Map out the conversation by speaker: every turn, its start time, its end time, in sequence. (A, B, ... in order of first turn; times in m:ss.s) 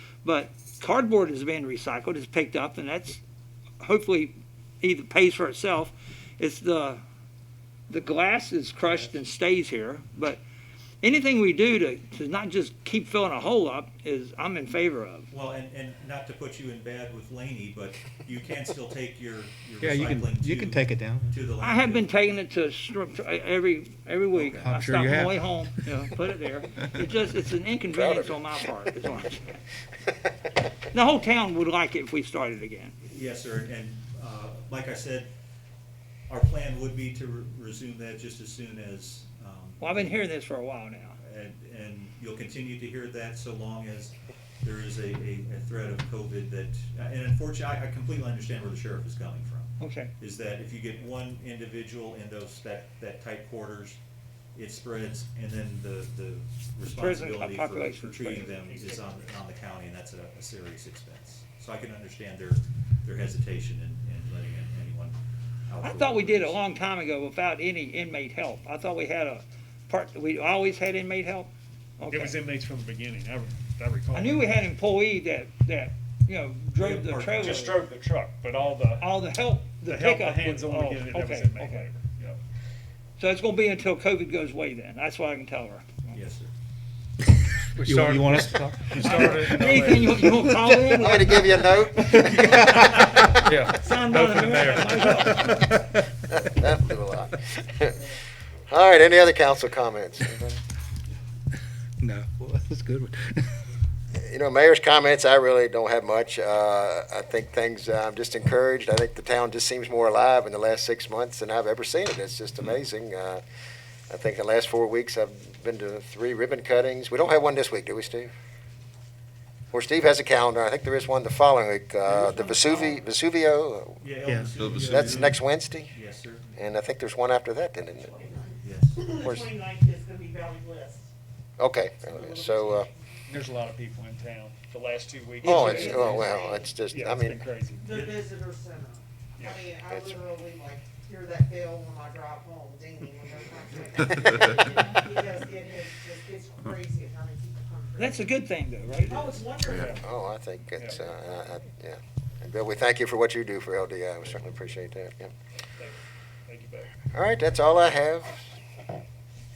0:00.2-0:03.2 A
0:03.8-0:07.0 A
0:07.9-0:10.4 A
0:11.0-0:15.3 A
0:15.3-0:22.1 B
0:19.8-0:21.3 C
0:21.6-0:29.5 A
0:24.3-0:24.7 B
0:24.5-0:25.9 C
0:27.9-0:28.4 D
0:30.9-0:33.0 A
0:33.0-0:35.3 B
0:36.3-0:40.1 B
0:39.8-0:41.2 A
0:41.2-0:54.0 B
0:49.8-0:50.1 A
0:54.5-1:05.2 B
0:56.9-0:58.7 A
1:05.7-1:06.6 B
1:05.8-1:12.4 A
1:12.0-1:14.6 E
1:14.1-1:17.8 A
1:16.8-1:17.7 B
1:17.4-1:19.1 E
1:18.9-1:21.9 A
1:19.8-1:22.4 E
1:23.2-1:26.0 A
1:26.1-1:26.5 B
1:27.7-1:30.5 C
1:27.8-1:30.2 E
1:28.9-1:31.7 A
1:30.8-1:32.7 D
1:32.2-1:33.7 C
1:33.5-1:35.3 E
1:33.6-1:35.8 A
1:34.5-1:36.0 C
1:36.3-1:38.1 D
1:38.7-1:40.6 D
1:42.0-1:43.6 C
1:44.1-1:53.4 D
1:54.1-1:58.3 D
1:59.7-2:04.0 D
2:02.1-2:02.9 F
2:04.0-2:06.5 B
2:04.2-2:05.2 C
2:04.7-2:05.9 D
2:06.5-2:08.2 D
2:08.0-2:11.1 F
2:08.6-2:09.0 B
2:09.2-2:09.5 D
2:11.6-2:12.9 D
2:12.1-2:13.1 F
2:13.3-2:18.0 E
2:15.4-2:16.7 F
2:15.4-2:17.4 D
2:17.8-2:28.2 F
2:17.9-2:18.2 B
2:19.4-2:19.6 E
2:19.9-2:20.1 D
2:28.0-2:29.3 A
2:29.0-2:30.0 F
2:29.2-2:30.0 E
2:29.8-2:35.3 D
2:36.5-2:36.9 E
2:37.1-2:38.5 D